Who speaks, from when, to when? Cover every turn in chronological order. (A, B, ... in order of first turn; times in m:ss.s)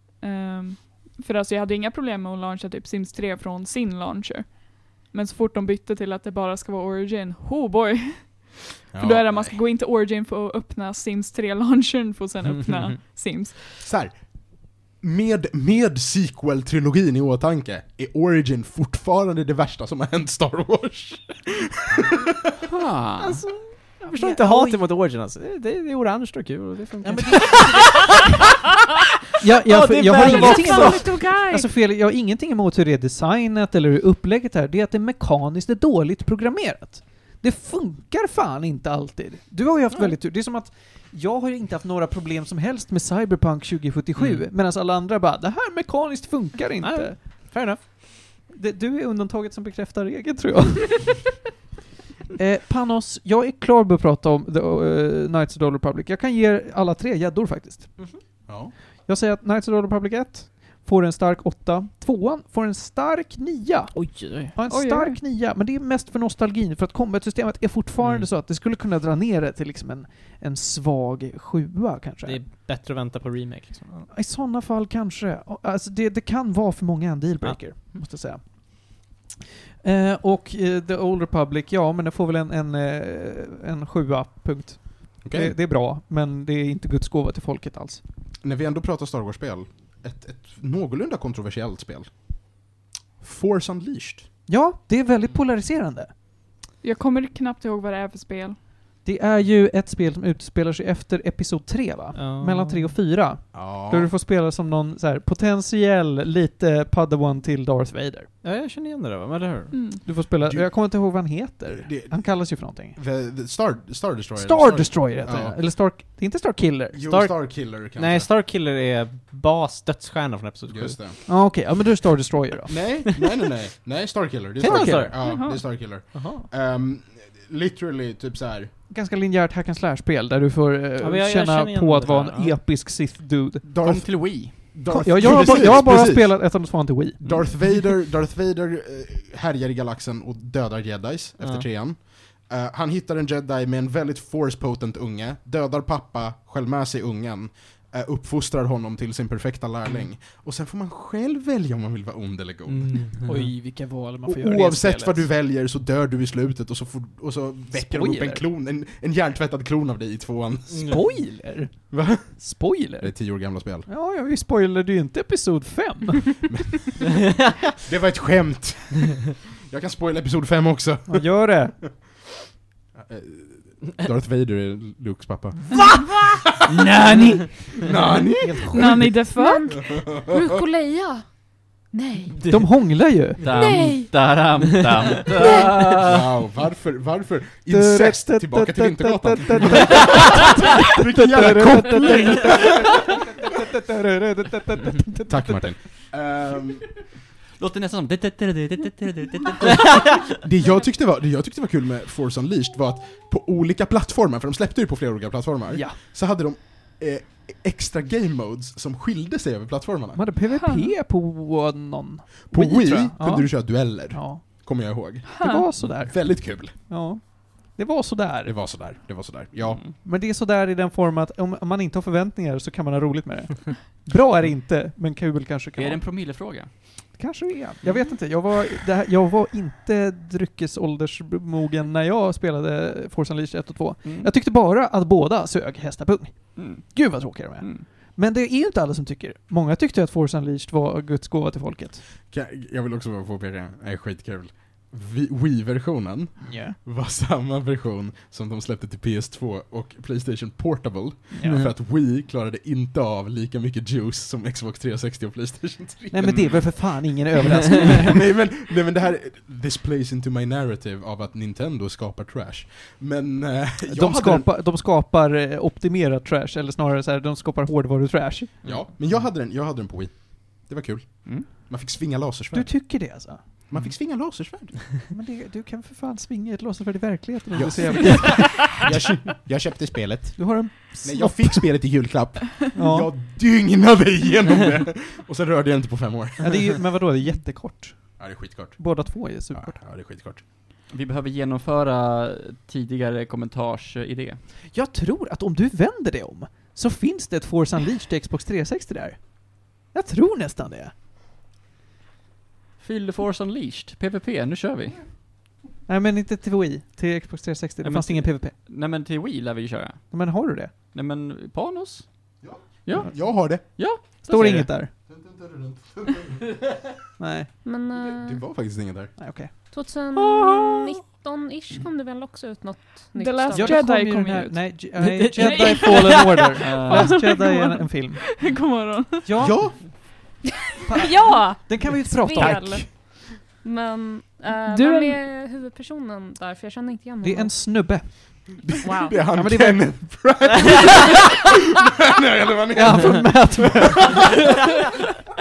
0:00.2-0:13.6 A
0:08.9-0:09.6 B
0:13.7-0:22.5 B
0:22.7-0:23.4 C
0:23.2-0:24.8 D
0:23.2-0:28.1 E
0:27.0-0:28.1 D
0:29.4-0:51.3 D
0:29.6-0:31.4 E
0:30.1-0:31.7 F
0:46.8-0:47.8 E
0:52.4-0:58.4 D
0:58.4-0:58.7 B
0:59.0-1:12.4 D
1:03.9-1:04.6 E
1:04.7-1:05.2 A
1:12.2-1:14.1 E
1:14.1-1:19.2 D
1:17.4-1:18.0 E
1:19.8-1:28.0 D
1:25.2-1:25.5 B
1:28.4-1:32.4 B
1:33.2-1:34.3 B
1:34.5-1:36.1 D
1:36.8-1:38.6 A
1:39.0-1:48.3 D
1:42.1-1:43.0 E
1:43.5-1:44.1 B
1:48.4-1:49.7 E
1:49.7-1:50.0 A
1:50.0-1:53.0 D
1:50.4-1:55.6 B
1:54.4-1:57.3 D
1:56.9-1:58.3 B
1:57.1-2:01.0 E
2:00.7-2:01.2 B
2:01.2-2:02.8 D
2:02.7-2:08.7 B
2:04.6-2:05.2 E
2:05.2-2:05.6 A
2:06.1-2:06.5 E
2:08.9-2:13.6 D
2:11.0-2:12.6 E
2:13.6-2:16.6 B
2:13.8-2:15.8 C
2:14.9-2:17.4 D
2:17.2-2:33.1 B
2:17.2-2:17.5 E
2:21.4-2:21.6 E
2:32.9-2:33.3 E
2:33.2-2:35.3 D
2:34.2-2:41.1 B
2:37.7-2:38.4 D
2:40.7-2:46.6 D
2:41.9-2:43.9 B
2:46.5-2:47.1 B
2:47.8-2:52.1 B
2:51.1-2:51.8 D
2:52.9-2:56.6 B
2:56.6-2:59.1 D
2:57.8-2:59.1 B
2:58.7-2:59.8 A
2:59.3-3:02.4 F
2:59.8-3:00.5 B
3:02.3-3:02.7 E
3:02.5-3:03.4 D
3:03.4-3:06.2 C
3:03.4-3:03.9 E
3:03.5-3:04.1 F
3:04.6-3:05.6 E
3:05.8-3:12.9 B
3:07.7-3:15.7 D
3:15.3-3:16.9 B
3:17.6-3:20.1 C
3:20.3-3:30.2 B
3:25.7-3:26.0 D
3:30.1-3:34.4 D
3:30.6-3:30.9 A
3:32.5-3:36.7 B
3:35.2-3:35.6 A
3:35.4-3:38.6 D
3:38.4-3:39.8 B
3:40.0-3:46.0 D
3:45.8-3:46.7 C
3:47.1-4:02.0 D
3:54.0-3:54.3 C
3:56.6-3:57.0 C
3:57.6-3:57.8 C
4:02.3-4:24.5 B
4:06.4-4:06.8 D
4:11.3-4:11.6 D
4:16.1-4:18.2 D
4:23.9-4:28.6 D
4:28.6-4:32.9 B
4:32.5-4:33.4 D
4:33.7-4:34.8 B
4:35.1-4:38.9 D
4:37.5-4:46.7 B
4:40.4-4:41.8 D
4:42.7-4:43.1 D
4:46.4-4:49.8 D
4:48.2-4:50.4 B
4:50.9-4:54.4 C
4:54.7-5:00.9 D
5:02.8-5:05.0 C
5:05.9-5:08.5 D
5:07.8-5:10.1 C
5:10.1-5:10.7 D
5:10.9-5:14.6 C
5:12.4-5:13.6 B
5:14.2-5:14.9 D
5:15.1-5:16.7 B
5:17.2-5:17.5 D
5:17.6-5:18.4 F
5:18.0-5:19.1 B
5:19.2-5:19.5 D
5:19.7-5:23.8 F
5:23.1-5:24.8 A
5:23.5-5:28.2 D
5:25.0-5:25.6 E
5:25.4-5:29.3 A
5:26.6-5:27.2 C
5:29.2-5:29.9 D
5:29.4-5:29.8 B
5:30.8-5:32.8 D
5:31.0-5:37.6 F
5:34.7-5:35.2 A
5:37.2-5:38.7 D
5:38.6-5:44.1 B
5:38.8-5:39.2 F
5:39.3-5:40.1 D
5:42.7-5:44.3 D